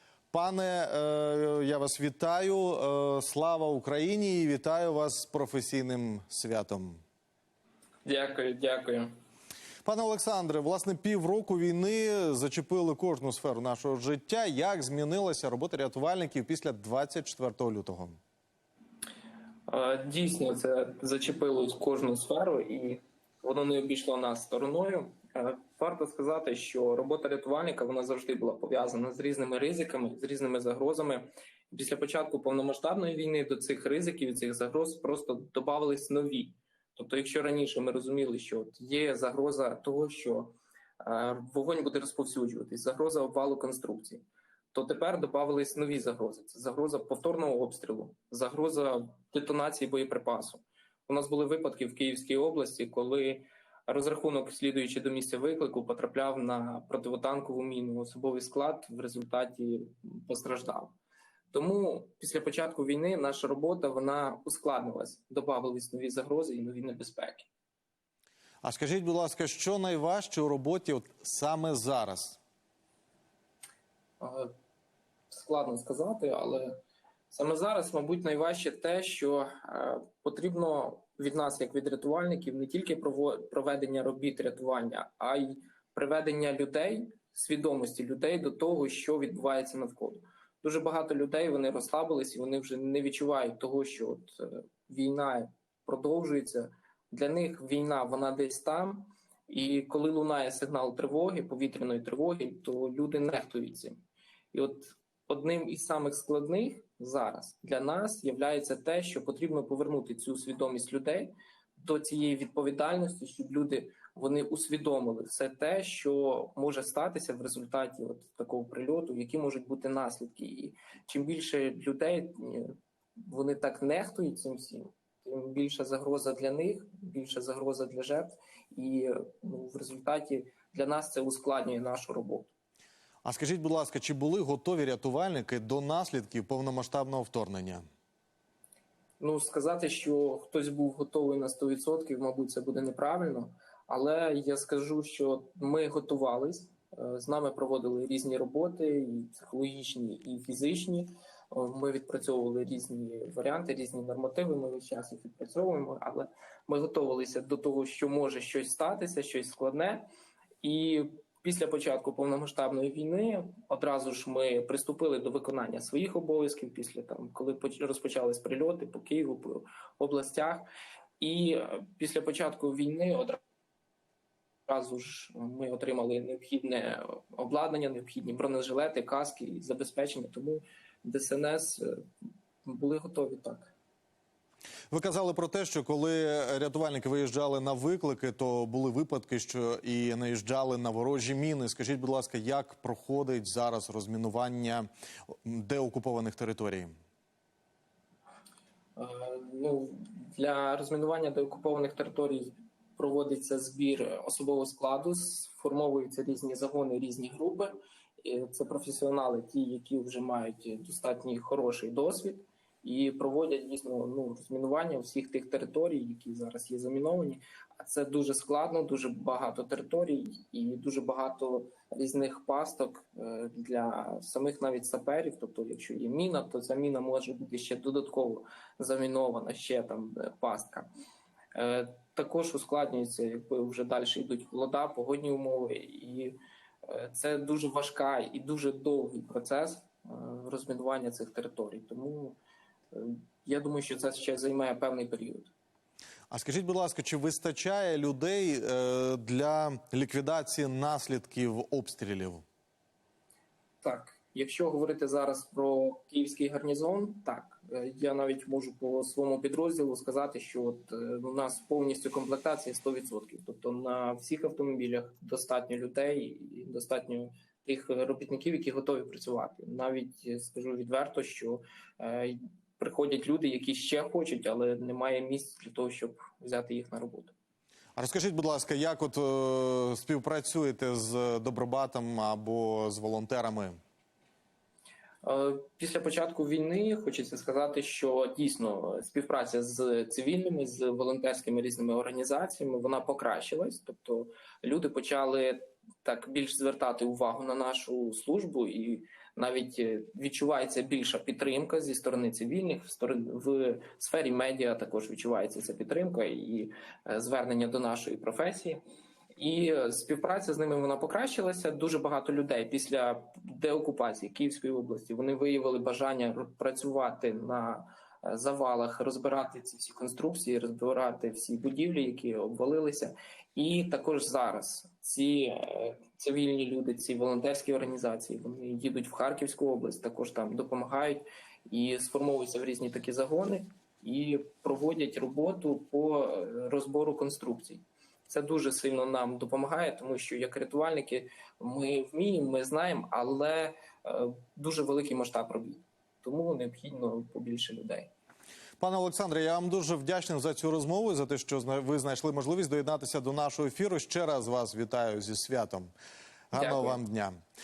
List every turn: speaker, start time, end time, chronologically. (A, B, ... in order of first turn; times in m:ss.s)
0:00.3-0:07.0 A
0:08.0-0:09.1 B
0:09.8-0:18.2 A
0:19.7-1:01.0 B
1:01.5-1:07.5 B
1:08.6-1:12.4 A
1:14.2-1:14.5 B
1:15.3-1:16.8 B
1:17.3-1:44.0 B
1:44.5-2:12.5 B
2:13.2-2:17.8 A
2:19.2-2:40.1 B
2:40.6-2:50.7 B
2:51.2-2:53.4 B
2:54.7-3:01.9 B
3:02.6-3:03.7 B
3:04.9-3:14.9 A
3:15.4-3:16.9 A
3:19.0-3:50.9 B
3:51.5-4:02.4 B
4:02.9-4:05.5 B
4:06.3-4:12.4 A
4:13.8-4:37.3 B
4:38.0-4:43.8 A
4:45.2-5:08.8 B
5:09.4-5:48.1 B
5:48.8-5:55.9 A
5:56.5-5:57.3 A
5:56.5-5:57.0 B